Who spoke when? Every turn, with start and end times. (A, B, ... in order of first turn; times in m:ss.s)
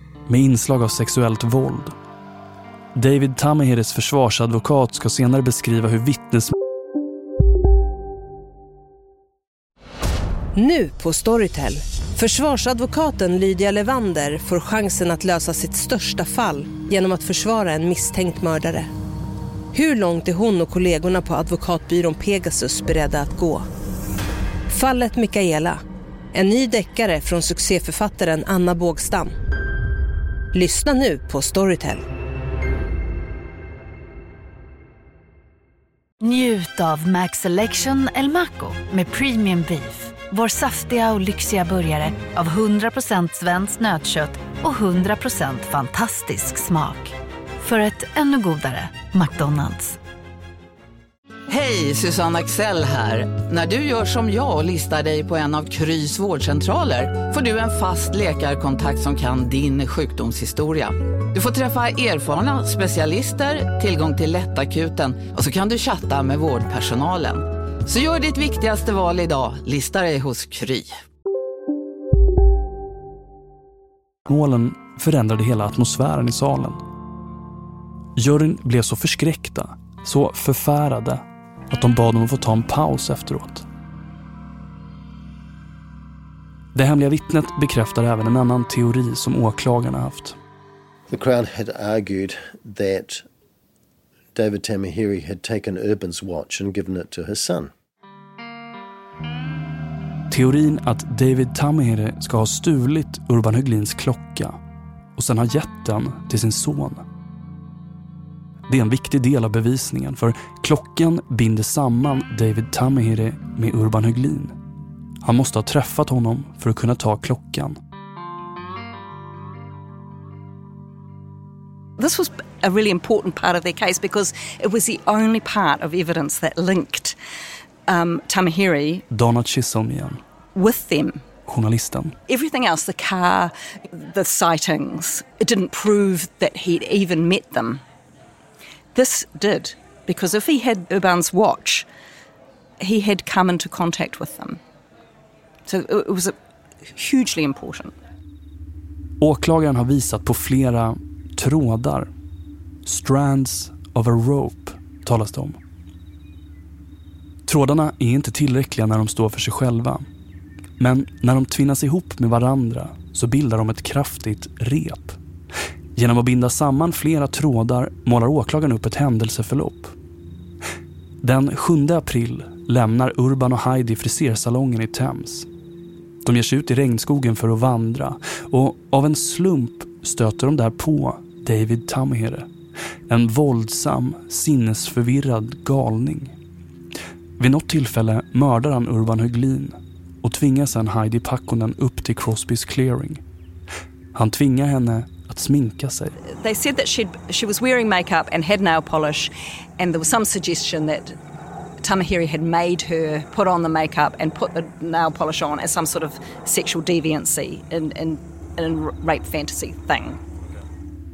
0:00.3-0:01.9 A
0:02.9-0:06.5 A
0:10.6-0:18.9 B
0:19.7-0:23.7 B
0:24.7-0:25.8 B
0:26.3-0:29.3 B
0:30.5-0:32.0 B
0:36.2-0:50.0 C
0:51.5-1:11.0 D
1:14.2-1:16.8 A
1:18.2-1:23.6 A
1:26.7-1:30.4 A
1:31.1-1:33.2 E
1:34.3-1:37.7 E
1:40.3-1:44.6 A
1:45.2-1:47.0 A
1:48.7-1:54.5 A
1:55.2-1:57.8 A
2:02.0-2:07.2 F
2:07.9-2:09.0 F
2:09.1-2:10.2 A
2:10.5-2:11.2 F
2:11.4-2:12.2 A
2:12.3-2:17.8 F
2:18.9-2:21.9 F
2:22.8-2:24.6 F
2:25.6-2:27.9 F
2:29.2-2:32.1 A
2:32.8-2:35.6 A
2:37.4-2:40.1 A
2:40.8-2:45.2 A
2:45.9-2:49.9 A
2:51.2-2:55.5 A
2:56.2-3:02.5 A
3:03.1-3:06.3 A
3:07.4-3:13.2 A
3:14.1-3:16.1 A
3:16.2-3:21.2 F
3:21.8-3:30.2 F